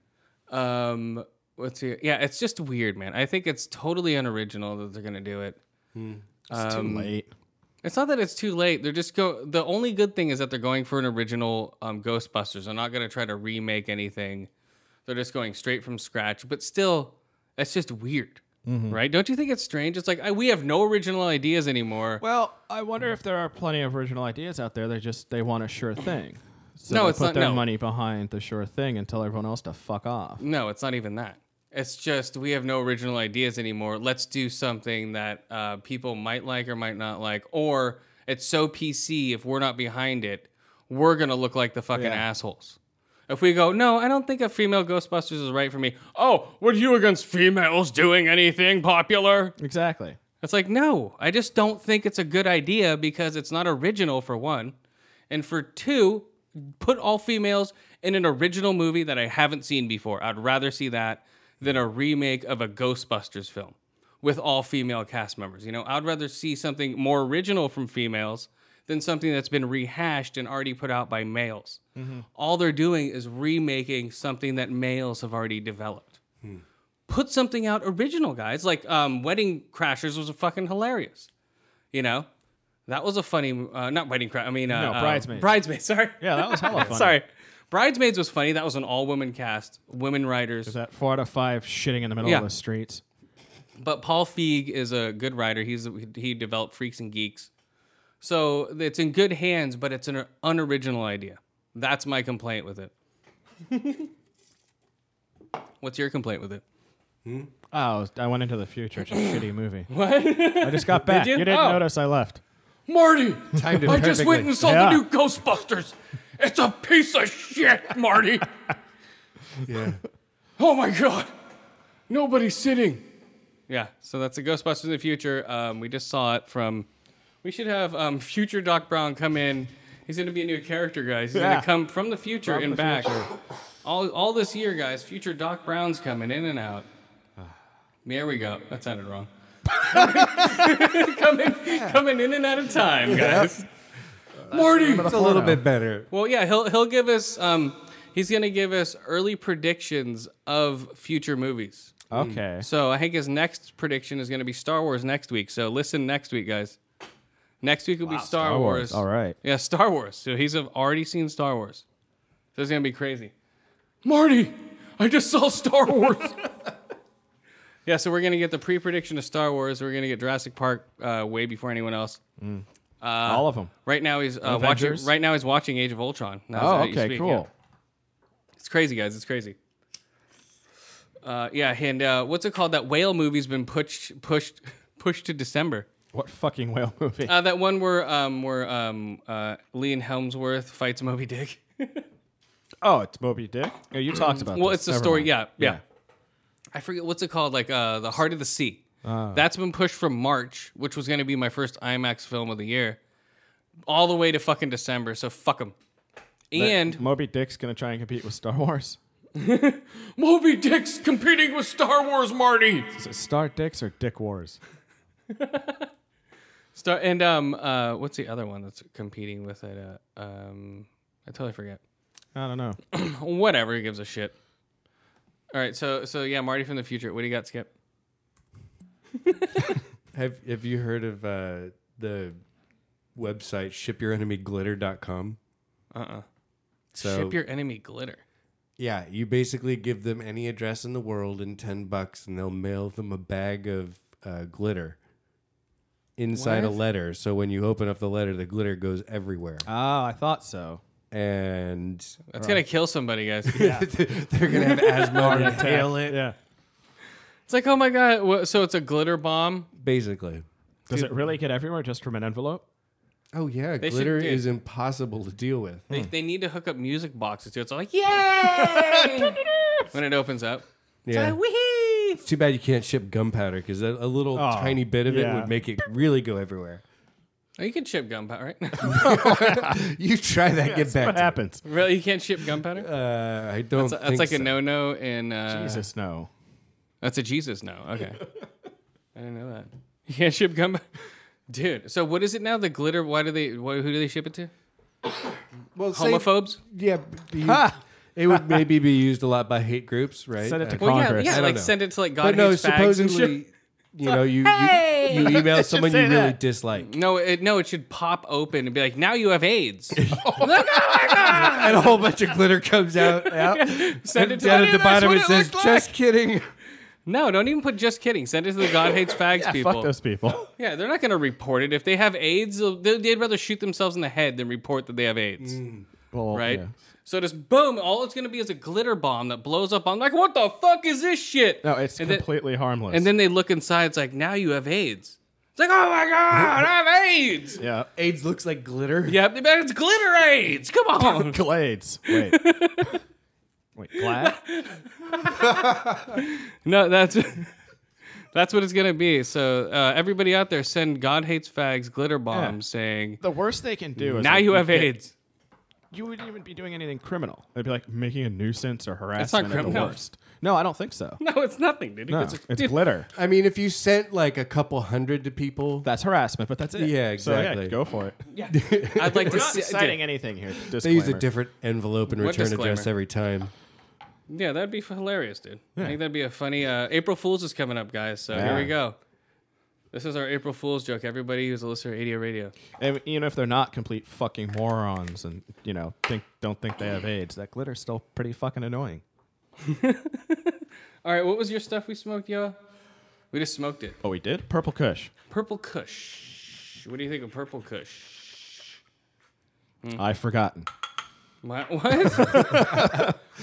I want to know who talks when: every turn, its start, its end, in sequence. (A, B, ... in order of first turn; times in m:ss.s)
0:00.5-0:05.6 A
0:05.9-0:06.2 B
0:06.5-0:07.1 A
0:06.5-0:07.3 C
0:07.8-0:14.5 A
0:15.0-0:22.2 A
0:18.6-0:19.0 C
0:22.2-0:30.4 C
0:26.9-0:27.7 A
0:30.4-0:42.8 A
0:41.9-0:42.2 C
0:43.3-0:49.5 A
0:49.6-0:50.2 C
0:50.4-0:54.7 A
0:55.3-1:11.8 A
1:12.0-1:12.2 C
1:12.3-1:16.2 A
1:17.1-1:21.3 A
1:21.9-1:22.3 A
1:22.9-1:30.8 A
1:24.7-1:25.6 C
1:26.2-1:27.2 C
1:30.6-1:33.0 C
1:32.2-1:32.5 A
1:33.8-1:37.5 A
1:38.2-1:42.9 A
1:43.7-1:44.1 A
1:45.8-1:46.6 A
1:47.2-1:47.5 B
1:47.7-1:49.9 C
1:49.9-1:51.8 A
1:50.6-1:52.4 C
1:52.9-1:53.5 D
1:53.5-1:54.5 B
1:53.7-1:54.0 C
1:53.8-1:55.9 A
1:54.6-1:55.1 C
1:56.4-1:58.4 D
1:57.8-1:58.4 A
1:59.6-2:00.0 B
2:00.6-2:01.3 A
2:02.1-2:03.0 A
2:03.7-2:06.9 A
2:07.4-2:13.2 A
2:11.3-2:11.7 C
2:12.4-2:13.3 C
2:13.8-2:16.9 A
2:18.0-2:23.7 A
2:19.9-2:20.8 C
2:23.1-2:23.5 C
2:24.5-2:25.2 A
2:24.5-2:25.6 C
2:24.6-2:26.1 B
2:26.1-2:31.9 A
2:32.1-2:32.7 C
2:32.1-2:32.4 B
2:32.6-2:36.8 A
2:37.6-2:41.8 A
2:38.0-2:39.4 C
2:42.5-2:43.3 A
2:44.0-2:46.4 A
2:47.8-2:52.2 A
2:52.4-2:52.6 C
2:53.0-2:57.5 A
2:53.2-2:53.7 C
2:54.4-2:55.1 C
2:56.5-2:57.5 C
2:58.6-2:59.6 A
3:01.2-3:05.9 A
3:06.1-3:07.4 C
3:07.2-3:12.0 A
3:12.8-3:15.8 C
3:14.1-3:15.8 A
3:16.7-3:23.0 A
3:19.0-3:19.4 C
3:23.9-3:25.7 A
3:26.5-3:27.0 A
3:26.5-3:29.0 C
3:30.2-3:32.8 D
3:33.0-3:34.6 C
3:35.3-3:35.8 A
3:36.7-3:41.8 A
3:42.3-3:42.8 C
3:42.9-3:44.3 A
3:45.5-3:47.7 A
3:50.1-3:52.4 B
3:53.1-3:55.4 B
3:55.9-3:56.2 A
3:56.9-3:58.2 A
3:57.0-3:57.4 B
3:58.8-4:05.0 B
4:06.2-4:09.6 B
4:06.3-4:06.8 A
4:09.6-4:10.8 C
4:11.1-4:12.2 B
4:12.3-4:13.6 A
4:12.4-4:12.7 C
4:13.5-4:16.2 B
4:13.5-4:13.9 C
4:14.5-4:15.7 A
4:15.2-4:16.4 C
4:17.5-4:19.7 A
4:19.7-4:20.4 B
4:20.9-4:22.6 C
4:23.3-4:25.9 B
4:23.8-4:24.5 A
4:25.9-4:29.4 A
4:28.9-4:29.2 C
4:29.9-4:32.2 A
4:31.0-4:31.4 B
4:32.2-4:36.8 B
4:34.3-4:35.5 C
4:37.6-4:39.2 A
4:38.8-4:41.4 B
4:38.8-4:39.8 C
4:40.6-4:41.6 C
4:41.6-4:42.9 A
4:42.7-4:44.6 B
4:43.8-4:45.9 A
4:45.5-4:46.3 C
4:47.0-4:48.2 A
4:49.1-4:50.8 A
4:51.5-4:54.5 A
4:55.7-5:06.9 B
4:55.9-4:56.6 A
4:57.4-4:57.8 C
4:58.3-4:58.6 C
5:00.4-5:01.4 C
5:00.8-5:03.4 A
5:04.4-5:05.4 A
5:04.9-5:06.4 C
5:06.8-5:11.9 A
5:10.0-5:16.5 B
5:10.1-5:10.5 C
5:13.2-5:15.7 A
5:15.3-5:15.8 C
5:17.0-5:19.9 A
5:19.3-5:20.5 C
5:20.6-5:25.6 A
5:25.4-5:25.9 B
5:26.1-5:26.7 C
5:26.3-5:32.3 A
5:31.6-5:33.1 C
5:32.9-5:37.6 A
5:37.6-5:37.9 C
5:38.0-5:39.2 B
5:39.0-5:41.4 A
5:41.0-5:42.9 C
5:42.1-5:42.9 A
5:43.8-5:44.4 C
5:44.0-5:47.5 A
5:45.4-5:46.2 B
5:48.3-5:53.2 A
5:52.3-5:52.6 C
5:53.2-5:55.0 C
5:54.1-5:55.1 A
5:55.9-6:01.2 C
5:59.2-6:00.0 A
6:01.2-6:02.9 A
6:02.1-6:03.1 C
6:03.1-6:05.9 B
6:05.8-6:08.2 C
6:06.7-6:07.8 B
6:08.3-6:10.0 A
6:08.5-6:09.5 B
6:09.2-6:11.2 C
6:10.7-6:13.5 B
6:12.1-6:12.9 A
6:14.3-6:19.0 A
6:18.3-6:18.7 C
6:18.3-6:18.7 B
6:19.9-6:22.5 A
6:22.8-6:29.0 C
6:29.6-6:32.6 A
6:33.3-6:34.0 A
6:34.0-6:35.1 C
6:35.3-6:38.6 A
6:40.0-6:40.7 C
6:41.4-6:43.0 A
6:42.1-6:43.1 C